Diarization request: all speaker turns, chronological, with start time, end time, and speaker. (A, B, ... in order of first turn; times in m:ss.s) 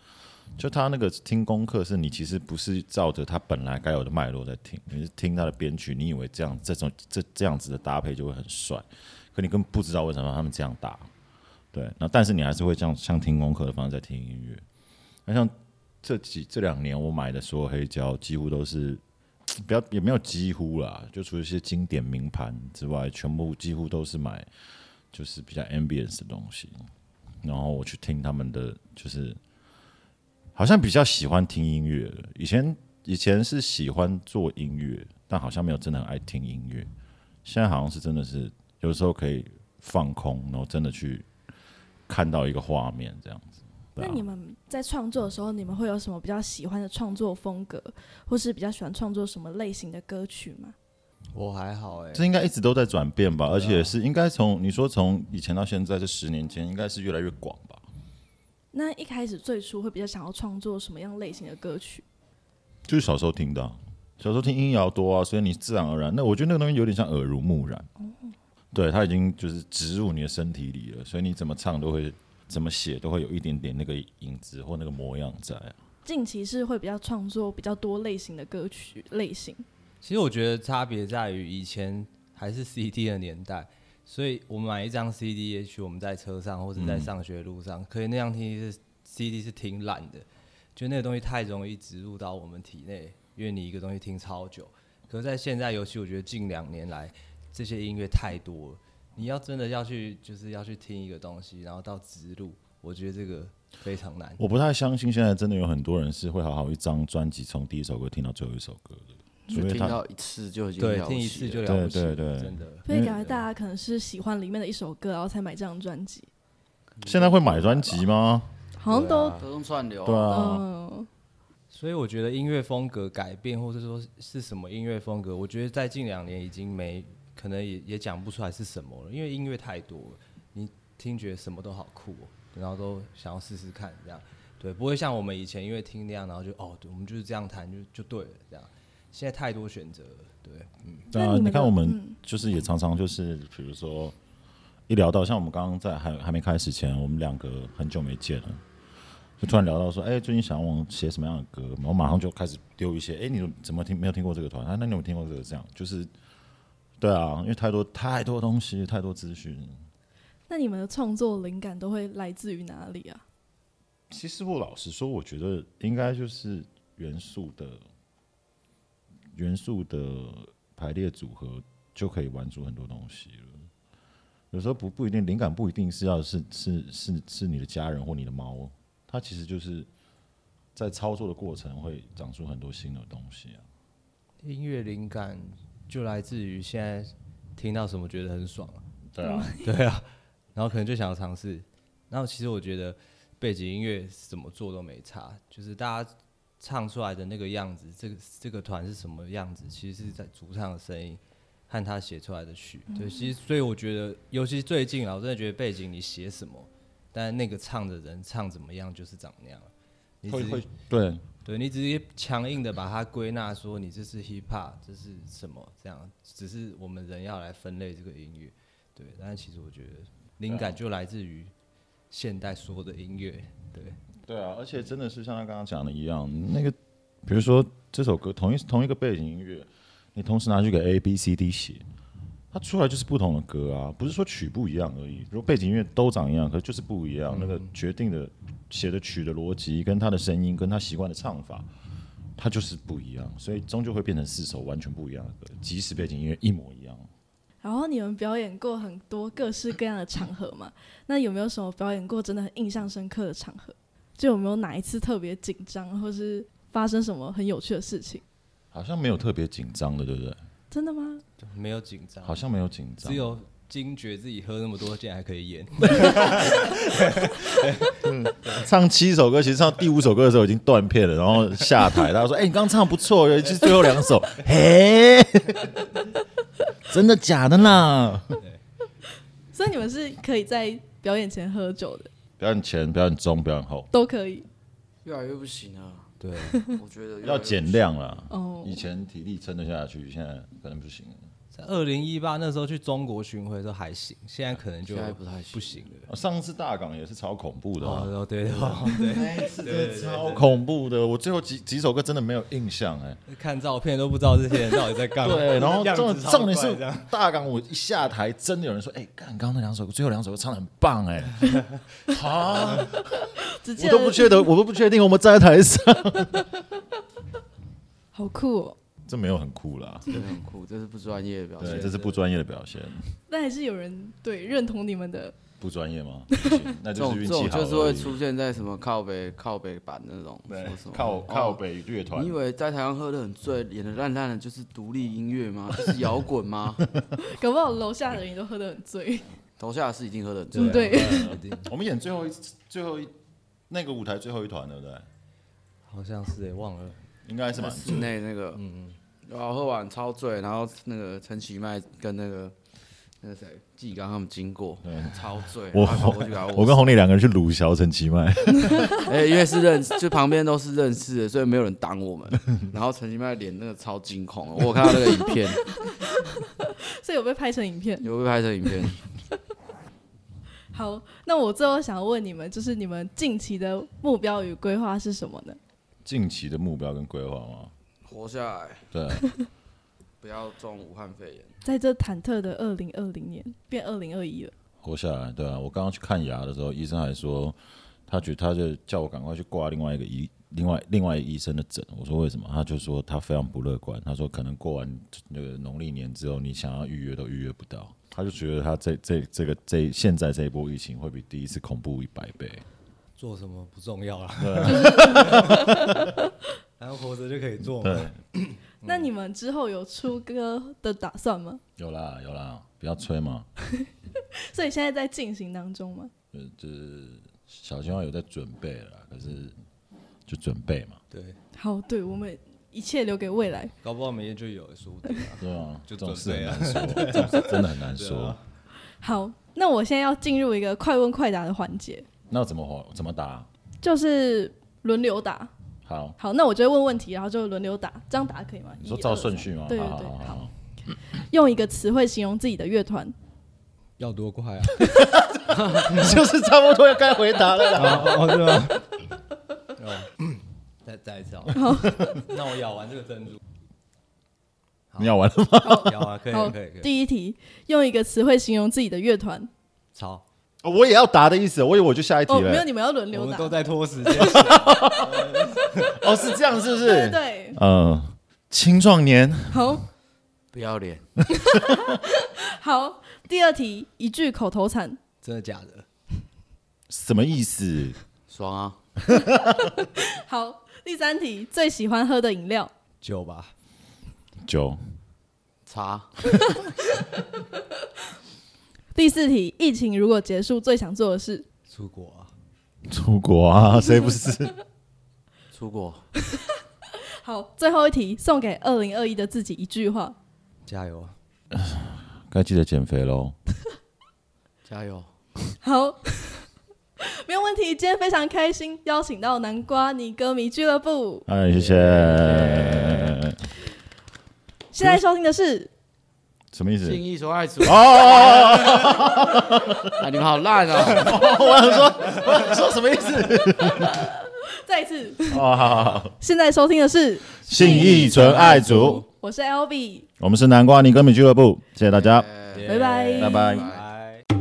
0:00.6-0:11.1 A
0:11.7-0:14.6 A
0:15.3-0:24.5 A
0:25.1-0:26.8 A
0:27.4-0:29.4 A
0:30.6-0:36.9 A
0:37.4-0:41.3 A
0:42.1-0:44.2 A
0:44.0-0:50.8 B
0:51.3-0:52.3 C
0:52.1-0:57.8 A
0:53.5-0:54.0 C
0:58.7-1:02.0 B
1:02.9-1:07.9 A
1:08.7-1:15.8 A
1:16.0-1:19.6 B
1:20.0-1:44.4 C
1:26.8-1:27.1 A
1:44.4-1:50.0 A
1:49.5-1:51.8 D
1:50.8-1:53.4 C
1:51.6-1:53.2 A
1:52.9-1:56.3 B
1:57.0-1:57.8 D
1:57.0-1:58.5 A
1:58.8-1:59.4 B
1:58.9-1:59.5 C
1:59.4-2:00.4 D
2:00.0-2:00.6 A
2:00.3-2:01.1 B
2:01.7-2:21.1 C
2:21.1-2:24.2 A
2:21.1-2:22.2 B
2:24.9-2:28.6 A
2:29.4-2:36.1 A
2:37.0-2:39.8 A
2:40.5-2:43.2 B
2:44.1-2:47.8 A
2:49.3-2:53.6 A
2:54.5-2:59.9 A
3:00.8-3:03.6 A
3:04.4-3:08.8 C
3:09.1-3:09.6 A
3:09.2-3:09.7 B
3:09.5-3:29.7 C
3:23.0-3:23.2 B
3:30.2-3:30.7 C
3:30.3-3:31.2 A
3:31.4-3:41.5 C
3:40.5-3:40.8 A
3:42.1-3:44.0 C
3:44.2-3:51.8 A
3:52.5-4:01.7 A
3:57.3-3:57.7 C
4:02.4-4:07.1 A
4:07.6-4:18.2 B
4:18.7-4:20.4 A
4:20.7-4:21.2 B
4:21.4-4:22.4 C
4:22.2-4:23.4 A
4:23.0-4:28.7 C
4:25.9-4:26.5 A
4:28.0-4:36.0 A
4:33.5-4:34.0 C
4:36.8-4:38.4 A
4:39.5-4:42.1 B
4:42.4-4:43.9 A
4:43.9-4:44.5 B
4:45.0-4:46.1 D
4:46.2-4:46.7 C
4:46.7-4:47.9 D
4:47.2-4:51.2 A
4:48.3-4:48.8 B
4:51.5-4:56.1 C
4:54.8-4:55.8 D
4:56.1-5:03.2 A
4:57.8-5:00.6 C
5:03.3-5:07.1 C
5:05.2-5:16.6 A
5:13.5-5:14.5 B
5:18.1-5:18.8 B
5:19.1-5:20.1 A
5:20.1-5:22.2 D
5:21.6-5:23.2 A
5:23.3-5:25.4 B
5:25.6-5:28.2 A
5:26.3-5:26.6 B
5:27.0-5:31.6 D
5:30.5-5:32.4 A
5:32.1-5:36.9 D
5:37.2-5:39.3 B
5:39.6-5:41.2 D
5:40.5-5:41.7 C
5:40.5-5:41.4 B
5:41.0-5:43.2 A
5:43.7-5:45.1 A
5:45.9-5:47.0 C
5:47.2-5:48.2 A
5:47.5-5:48.6 D
5:48.6-5:49.0 C
5:49.2-5:52.6 D
5:53.2-5:57.0 D
5:54.8-5:59.1 A
5:59.0-6:05.8 D
6:05.8-6:08.1 B
6:08.0-6:09.0 D
6:10.7-6:15.6 B
6:16.0-6:17.7 A
6:18.0-6:18.9 D
6:18.9-6:19.3 A
6:20.2-6:21.6 D
6:21.6-6:24.5 B
6:24.8-6:42.7 A
6:43.2-6:46.0 C
6:44.4-6:45.7 A
6:45.6-6:46.1 B
6:46.8-6:49.1 C
6:47.8-6:48.2 A
6:48.8-6:51.6 B
6:51.8-6:53.5 A
6:54.3-6:56.1 B
6:56.3-6:59.6 A
7:00.3-7:01.0 A
7:01.1-7:01.4 C
7:01.5-7:03.7 B
7:03.8-7:08.4 C
7:05.4-7:08.4 A
7:09.0-7:12.1 B
7:12.3-7:13.5 A
7:13.8-7:15.5 B
7:15.8-7:16.2 A
7:16.2-7:20.4 B
7:18.8-7:20.5 A
7:21.3-7:23.1 B
7:24.0-7:24.9 C
7:24.9-7:28.8 A
7:25.6-7:25.8 D
7:25.9-7:26.2 C
7:27.7-7:29.1 C
7:29.7-7:33.4 C
7:31.5-7:32.0 B
7:31.9-7:32.2 A
7:34.9-7:35.2 C
7:35.0-7:36.1 A
7:35.6-7:39.5 B
7:35.8-7:36.9 C
7:40.0-7:40.2 C
7:40.6-7:42.7 A
7:42.3-7:43.6 B
7:43.1-7:46.0 C
7:44.2-7:49.8 A
7:46.8-7:47.6 B
7:49.5-7:49.8 B
7:50.5-7:51.1 D
7:51.3-7:55.0 B
7:55.2-7:55.9 C
7:56.9-7:58.0 A
7:58.3-7:58.8 D
7:59.1-7:59.7 A
8:00.0-8:02.7 B
8:03.0-8:03.5 C
8:04.4-8:04.8 A
8:05.6-8:06.2 D
8:06.5-8:07.0 B
8:09.0-8:11.5 B
8:11.7-8:12.3 C
8:12.9-8:14.5 A
8:15.5-8:16.1 D
8:16.3-8:20.2 B
8:20.7-8:21.2 C
8:21.5-8:23.4 A
8:24.6-8:25.1 D
8:25.6-8:26.5 B
8:27.0-8:31.3 B
8:31.3-8:33.4 A
8:31.5-8:33.0 C
8:32.1-8:32.9 D
8:34.7-8:35.7 B
8:36.5-8:37.0 A
8:36.8-8:39.0 D
8:37.6-8:40.1 A
8:39.9-8:41.2 D
8:40.7-8:44.1 A
8:43.8-8:45.4 B
8:45.3-8:46.1 A
8:46.2-8:50.1 B
8:47.4-8:49.0 A
8:47.4-8:49.0 C
8:50.2-8:52.3 A
8:51.9-8:53.8 D
8:52.5-8:54.2 C
8:52.7-8:53.6 B
8:53.2-8:53.7 A